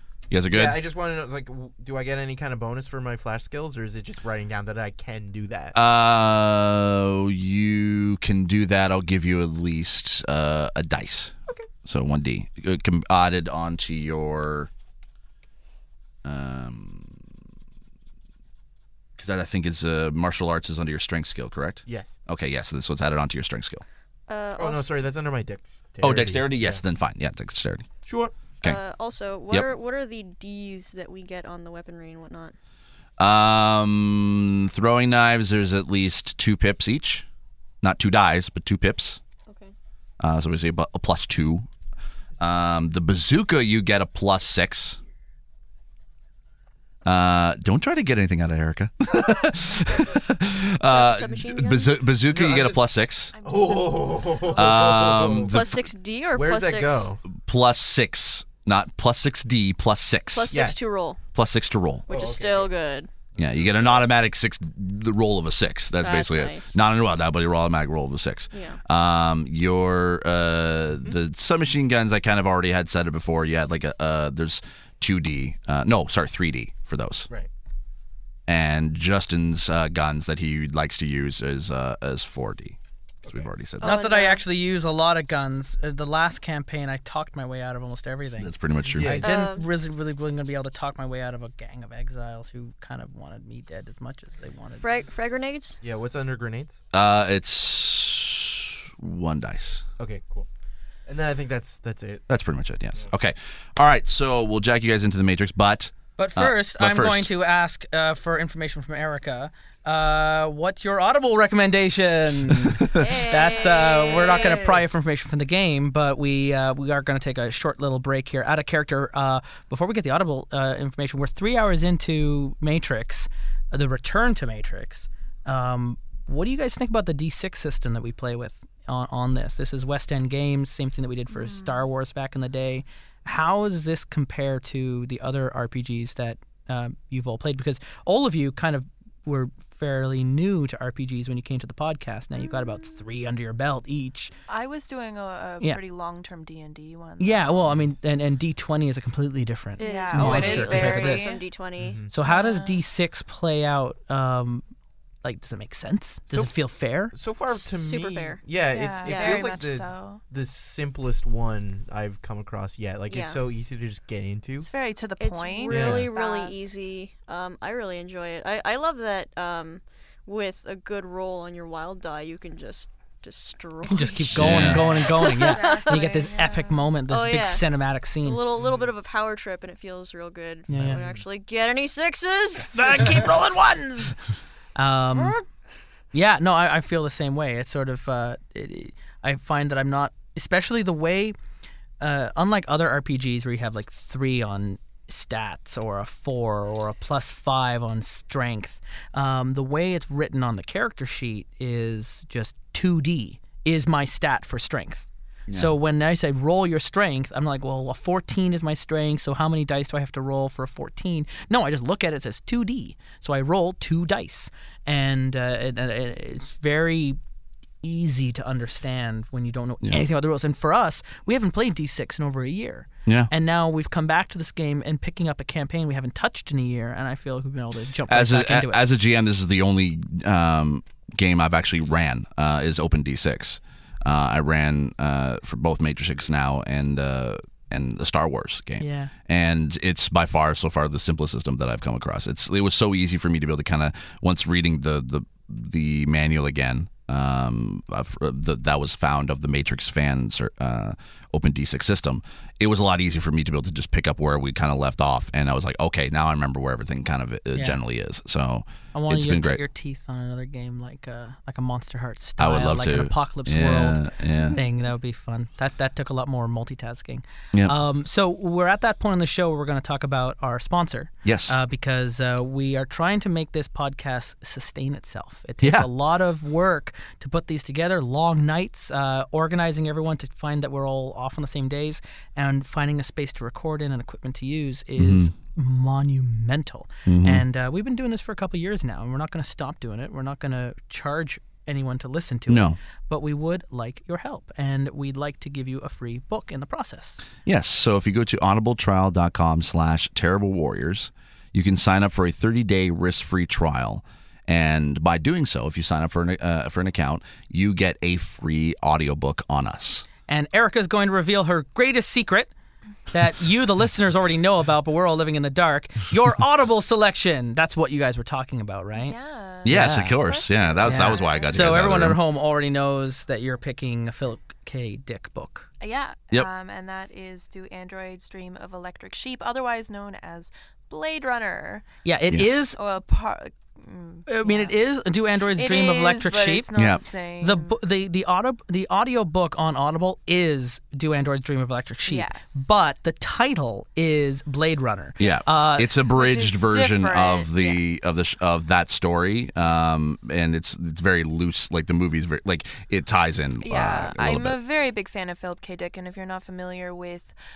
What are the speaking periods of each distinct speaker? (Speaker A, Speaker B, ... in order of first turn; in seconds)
Speaker A: 0.3-0.8, 5.7-14.7, 16.2-17.2, 19.2-23.8, 26.0-27.9, 33.2-37.2, 37.8-39.2, 40.2-41.7, 42.4-45.0, 47.0-53.3, 54.5-55.9, 57.3-60.5, 61.3-62.1, 63.4-77.3, 78.5-84.0, 88.4-89.2, 96.9-99.8, 102.3-107.3, 112.7-113.1, 174.3-174.9, 223.1-223.3, 228.1-259.6, 262.4-264.6, 271.2-271.6, 275.6-275.9, 285.0-285.3, 287.1-287.4, 292.5-292.8, 297.4-310.1, 319.6-322.2, 332.3-332.6, 336.7-337.0, 345.2-354.6
Speaker B: 0.5-5.7, 21.9-22.2, 24.6-26.8, 28.0-28.3, 52.3-55.5, 56.3-57.2, 60.5-60.8, 62.1-62.7, 63.3-64.0, 88.9-89.4, 95.8-96.8, 100.0-100.5, 101.0-102.2, 113.8-114.8, 150.2-151.2, 151.8-152.1, 156.3-156.5, 157.1-164.7, 165.7-166.1, 180.9-181.2
Speaker C: 24.3-24.9, 28.6-32.5, 39.5-39.7, 50.9-52.1, 55.4-57.1, 60.3-61.2, 62.1-63.1, 66.0-66.8, 68.5-68.8, 83.8-84.4, 89.2-89.7, 94.8-95.8, 112.9-114.6, 142.5-142.8, 149.8-152.0, 157.5-158.4, 159.0-159.5, 163.1-163.4, 165.2-176.2, 177.1-177.7, 178.2-182.9
Speaker D: 53.3-54.5, 131.3-131.8, 144.5-147.7, 149.8-151.4, 152.2-152.8, 158.7-160.2, 164.6-166.7, 174.7-176.9, 318.9-322.1, 325.8-331.9, 332.7-334.8, 335.4-337.7, 342.1-342.6, 345.2-347.8, 353.6-357.3
Speaker E: 83.8-94.8, 106.2-144.3, 147.2-151.3, 152.1-154.6, 155.2-157.1, 173.9-178.4, 180.7-181.0, 182.6-184.2, 184.7-185.4, 186.1-191.3, 192.0-217.2, 217.8-228.8, 238.8-239.1, 258.9-297.2, 310.3-312.5, 313.1-320.2, 320.8-325.7, 332.0-332.8, 334.3-336.7, 337.4-345.9